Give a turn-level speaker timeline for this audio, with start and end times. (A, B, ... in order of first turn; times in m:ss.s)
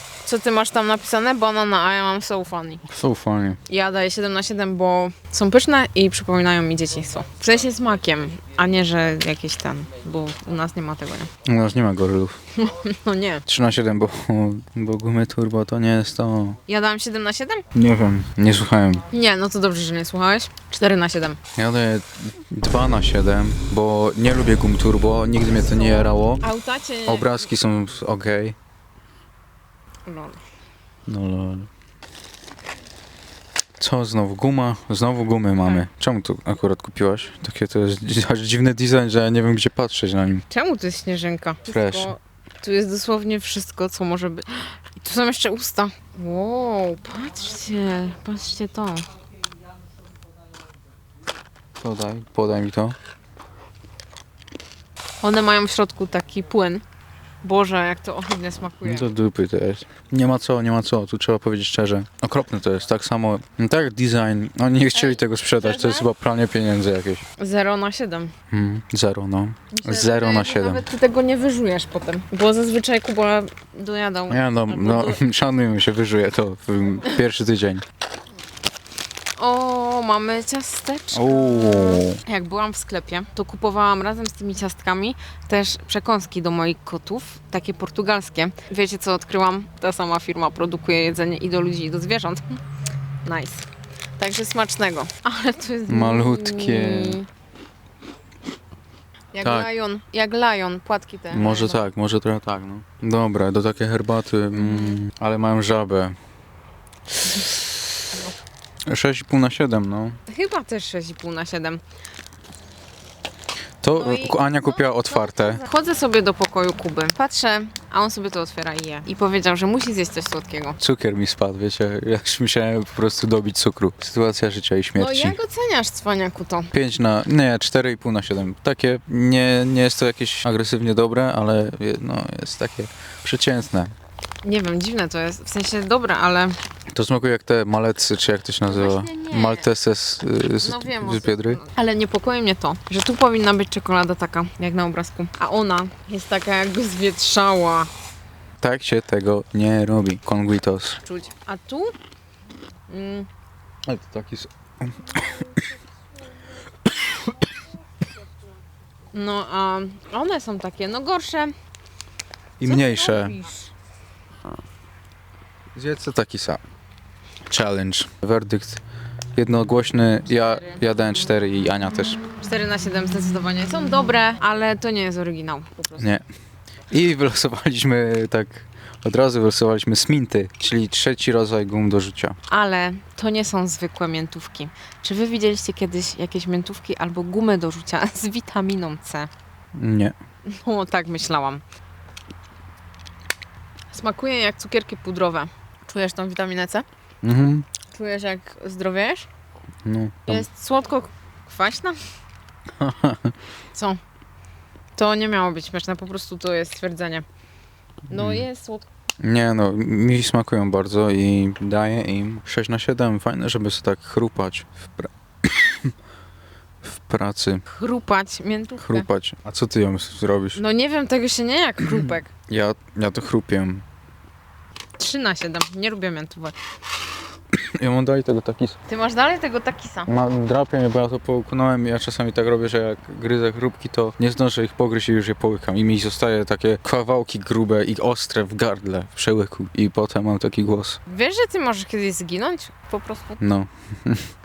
0:00.2-0:02.8 A
0:02.9-0:03.6 B
0:03.7-0:11.3 A
0:11.4-0:12.4 B
0:12.6-0:13.4 A
0:13.5-0:16.6 B
0:16.6-0:17.6 A
0:17.7-0:19.0 B
0:19.1-0:21.4 A
0:21.6-0:26.4 B
0:25.6-0:27.4 A
0:27.1-0:28.6 B
0:30.0-0:30.4 A
0:31.1-0:31.7 B
0:33.8-0:40.4 B
0:40.5-0:49.1 A
0:41.7-0:42.1 B
0:51.8-0:53.0 B
0:55.2-0:56.8 A
0:57.4-0:59.1 A
0:58.8-1:07.2 B
1:04.9-1:06.1 A
1:07.4-1:08.3 A
1:08.5-1:10.8 B
1:09.7-1:15.2 A
1:14.3-1:17.8 B
1:19.4-1:32.6 A
1:21.1-1:22.2 B
1:33.2-1:33.7 A
1:34.2-1:37.3 A
1:35.9-1:37.2 B
1:39.3-1:41.8 A
1:39.4-1:39.7 B
1:41.3-1:46.2 B
1:44.5-1:45.0 A
1:47.3-1:47.8 B
1:48.9-1:50.2 B
1:50.3-1:51.8 A
1:53.8-1:55.6 B
1:54.0-2:00.8 A
2:00.8-2:05.4 B
2:05.0-2:06.7 A
2:06.7-2:13.9 B
2:14.4-2:16.6 A
2:16.9-2:21.6 B
2:18.6-2:19.7 A
2:20.6-2:27.9 A
2:28.6-2:31.0 B
2:31.0-2:31.9 A
2:32.9-2:33.3 A
2:33.8-2:35.6 B
2:36.9-2:37.3 B
2:39.1-2:41.5 A
2:42.6-2:43.4 B
2:42.6-2:43.7 A
2:45.7-2:46.6 B
2:47.5-2:48.8 B
2:49.3-2:52.2 B
2:50.3-2:50.8 A
2:52.4-2:56.1 A
2:56.0-2:56.2 B
2:56.9-3:02.4 B
3:02.5-3:09.3 A
3:09.7-3:10.1 B
3:10.5-3:11.6 A
3:13.9-3:16.8 A
3:17.2-3:17.7 B
3:17.9-3:19.3 A
3:19.8-3:20.4 B
3:20.3-3:22.0 A
3:22.8-3:23.4 B
3:23.7-3:24.0 A
3:24.9-3:27.2 A
3:28.1-3:28.4 B
3:28.1-3:28.8 A
3:29.2-3:35.9 B
3:36.8-3:37.6 B
3:37.7-3:39.1 A
3:38.8-3:40.6 B
3:40.5-3:42.3 A
3:41.8-3:43.8 B
3:45.0-3:46.6 A
3:47.5-3:48.8 B
3:48.9-3:50.1 A
3:50.1-4:01.0 B
4:01.1-4:03.4 A
4:03.4-4:04.3 B